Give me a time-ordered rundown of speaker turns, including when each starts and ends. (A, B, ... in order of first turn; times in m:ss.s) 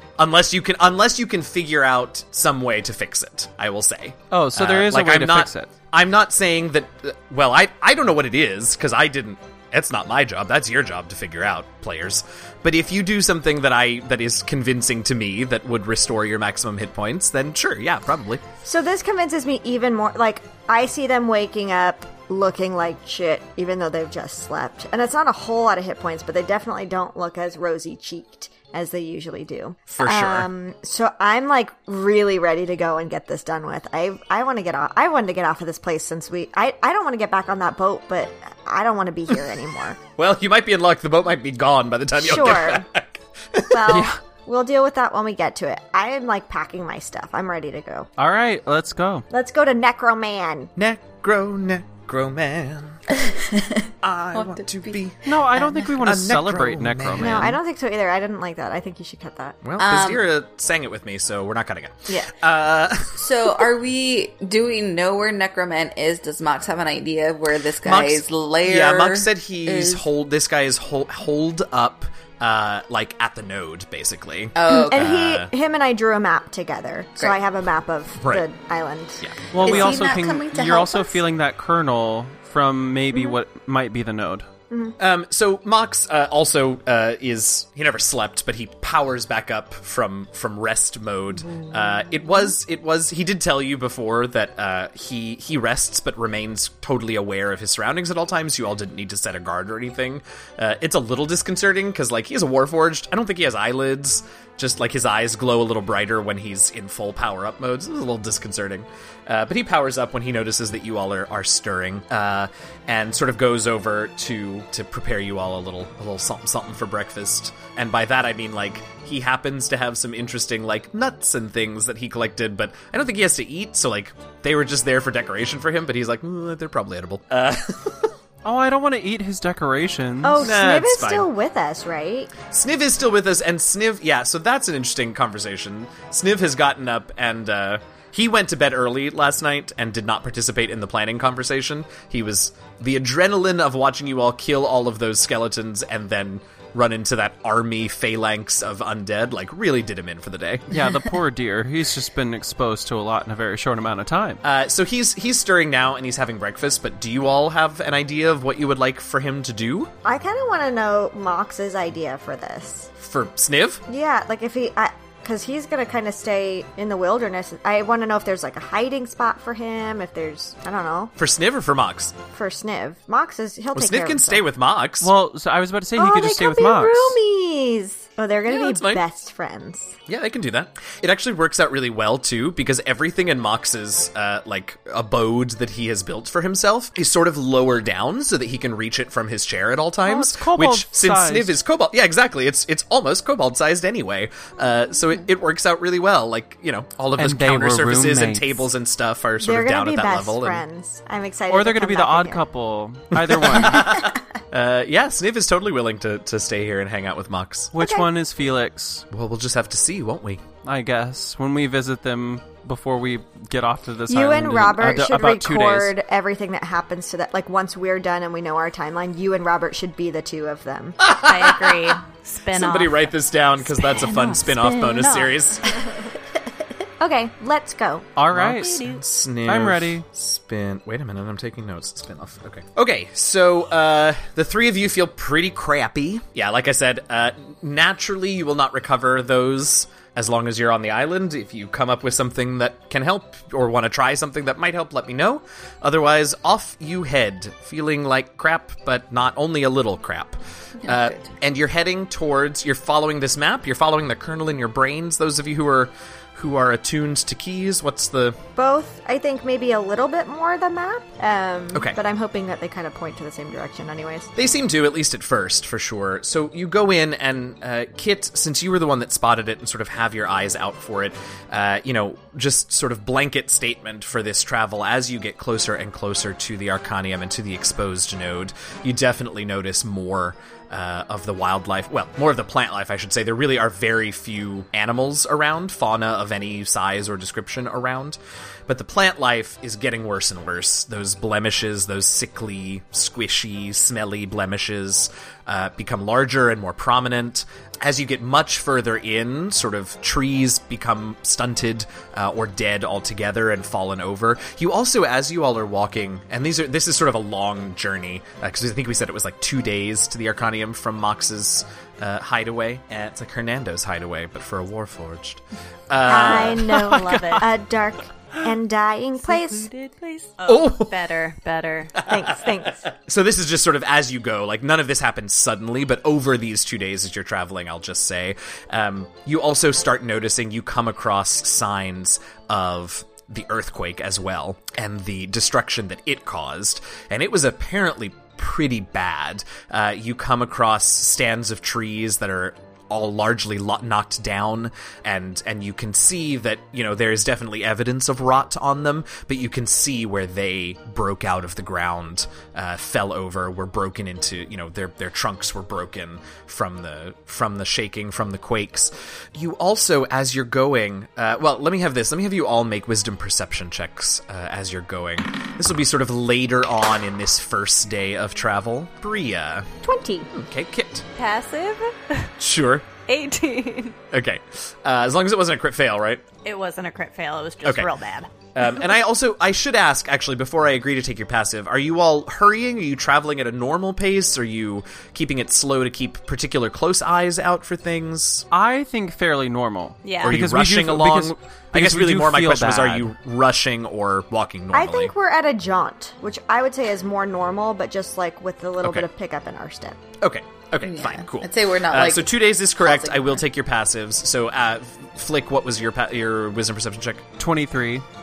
0:00.2-0:18.4 A
0:04.3-0:05.7 B
0:18.6-0:40.0 C
0:29.9-0:30.5 A
0:40.2-0:44.1 A
0:42.2-0:42.9 C
0:43.7-0:48.1 C
0:43.9-0:44.2 B
0:48.2-0:49.3 B
0:49.3-0:50.7 C
0:50.8-0:53.2 A
0:53.2-0:55.9 D
0:54.0-0:57.6 A
0:55.2-0:57.6 B
0:57.2-0:59.6 C
0:59.6-1:03.6 A
0:59.8-1:00.2 D
1:03.1-1:10.0 D
1:07.8-1:15.5 A
1:14.6-1:15.2 D
1:14.7-1:19.2 C
1:19.2-1:19.5 A
1:19.5-1:24.5 B
1:19.6-1:21.2 D
1:24.7-1:25.0 C
1:25.0-2:08.1 A
2:08.4-2:10.5 B
2:10.2-2:12.3 C
2:10.4-2:11.3 A
2:12.5-2:30.7 A
2:30.7-2:34.4 B
2:34.4-2:39.9 A
2:40.0-2:42.9 C
2:43.0-2:43.8 A
2:43.9-2:51.1 C
2:51.2-2:52.2 A
2:52.3-2:54.4 C
2:53.7-2:55.1 A
2:55.0-2:57.2 B
2:56.0-3:00.0 C
2:58.5-2:59.0 A
3:00.1-3:20.6 A
3:10.0-3:11.6 B
3:17.2-3:18.6 B
3:19.4-3:22.4 C
3:21.5-3:24.0 B
3:23.1-3:27.7 A
3:27.7-3:29.1 B
3:27.8-3:28.1 C
3:29.1-3:30.4 A
3:30.6-3:35.9 B
3:34.1-3:41.0 C
3:41.0-3:42.0 A
3:41.2-3:45.4 E
3:42.5-3:45.8 A
3:47.0-3:48.1 C
3:48.2-3:48.8 B
3:48.3-4:18.4 A
3:48.6-3:49.0 E
3:49.5-3:50.0 B
4:10.8-4:11.3 D
4:18.6-4:24.3 C
4:24.4-5:16.7 A
5:16.0-5:19.7 C
5:16.1-5:17.5 E
5:16.4-5:17.5 B
5:19.2-5:22.0 E
5:20.5-5:21.0 A
5:22.0-6:09.7 A
5:22.0-5:22.8 C
6:09.8-6:10.3 C
6:10.3-6:11.1 A
6:11.1-6:12.3 E
6:12.4-6:12.9 A
6:13.1-6:14.0 E
6:14.1-6:16.2 A
6:16.4-6:18.3 E
6:17.6-6:17.9 A
6:18.6-6:28.5 A
6:28.5-6:33.1 B
6:30.0-6:30.4 E
6:30.2-6:35.1 A
6:34.7-6:40.0 C
6:40.2-6:47.3 A
6:40.8-6:43.4 D
6:47.4-6:48.0 B